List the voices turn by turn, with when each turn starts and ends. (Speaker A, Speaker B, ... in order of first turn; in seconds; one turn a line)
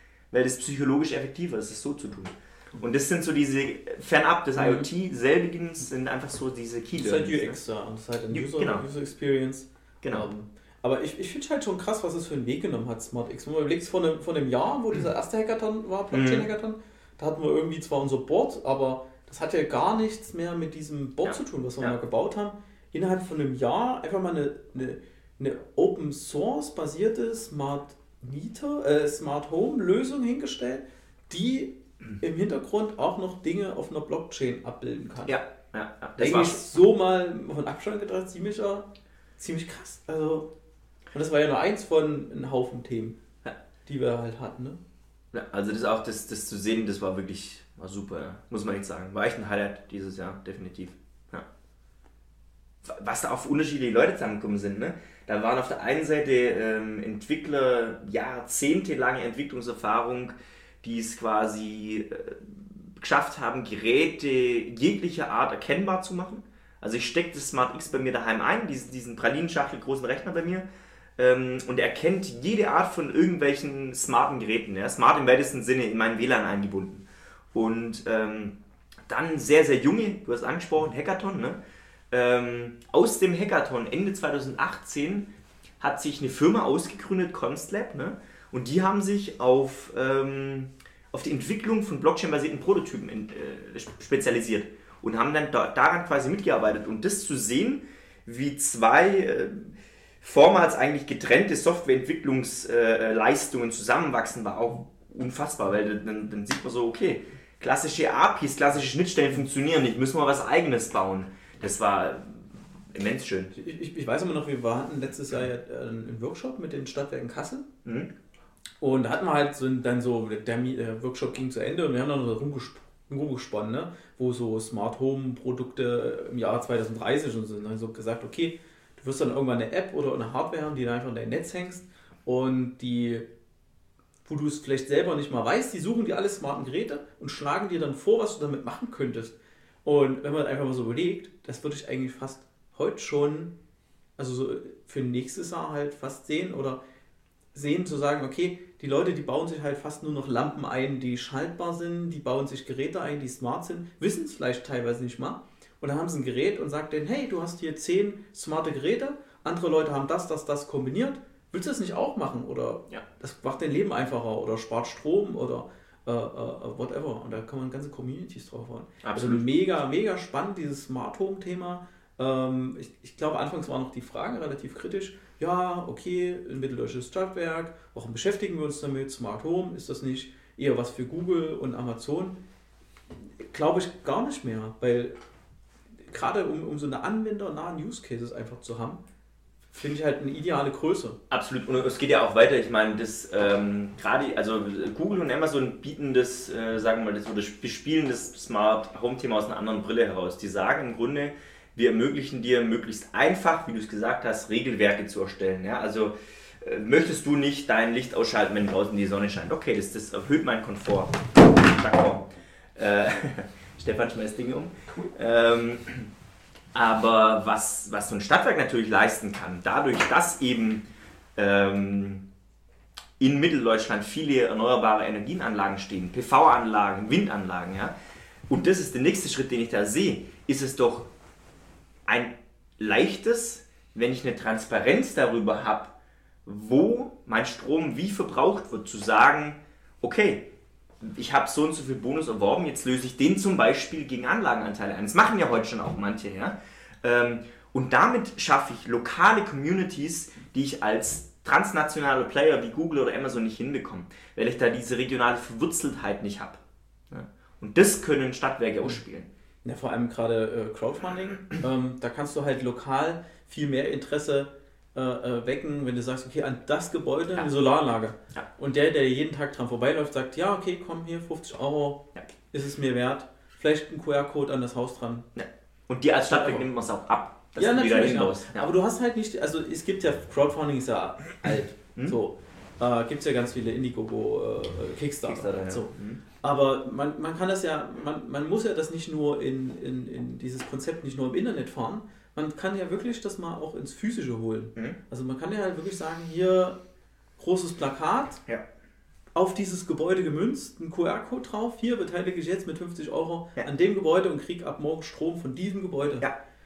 Speaker A: 0.3-7.5
Speaker B: 4.6-4.9
Speaker B: 7.0-35.4
Speaker A: 8.3-8.9
Speaker A: 10.0-10.3
Speaker A: 16.1-16.5
Speaker A: 21.2-21.9
Speaker A: 35.3-36.7
Speaker B: 36.2-40.5
Speaker B: 41.1-44.8
Speaker A: 45.3-51.5
Speaker A: 52.8-70.7
Speaker A: 71.2-81.6
Speaker A: 82.1-113.5
Speaker B: 113.5-117.7
Speaker A: 117.8-118.1
Speaker B: 118.8-133.3
Speaker B: 134.2-143.5
Speaker B: 144.2-146.8
Speaker B: 147.5-182.4
Speaker A: 169.0-169.4
Speaker B: 183.4-185.2
Speaker B: 186.0-189.0
Speaker B: 189.7-191.2
Speaker A: 191.3-216.1
Speaker A: 216.7-222.2
Speaker A: 223.2-227.9
Speaker A: 228.5-231.1
Speaker A: 232.1-235.9
Speaker A: 236.4-240.5
Speaker A: 241.0-259.3
Speaker B: 259.6-275.3
Speaker A: 275.4-278.7
Speaker B: 276.2-276.7
Speaker B: 277.6-296.8
Speaker A: 285.3-286.2
Speaker B: 297.4-298.4
Speaker B: 299.4-306.3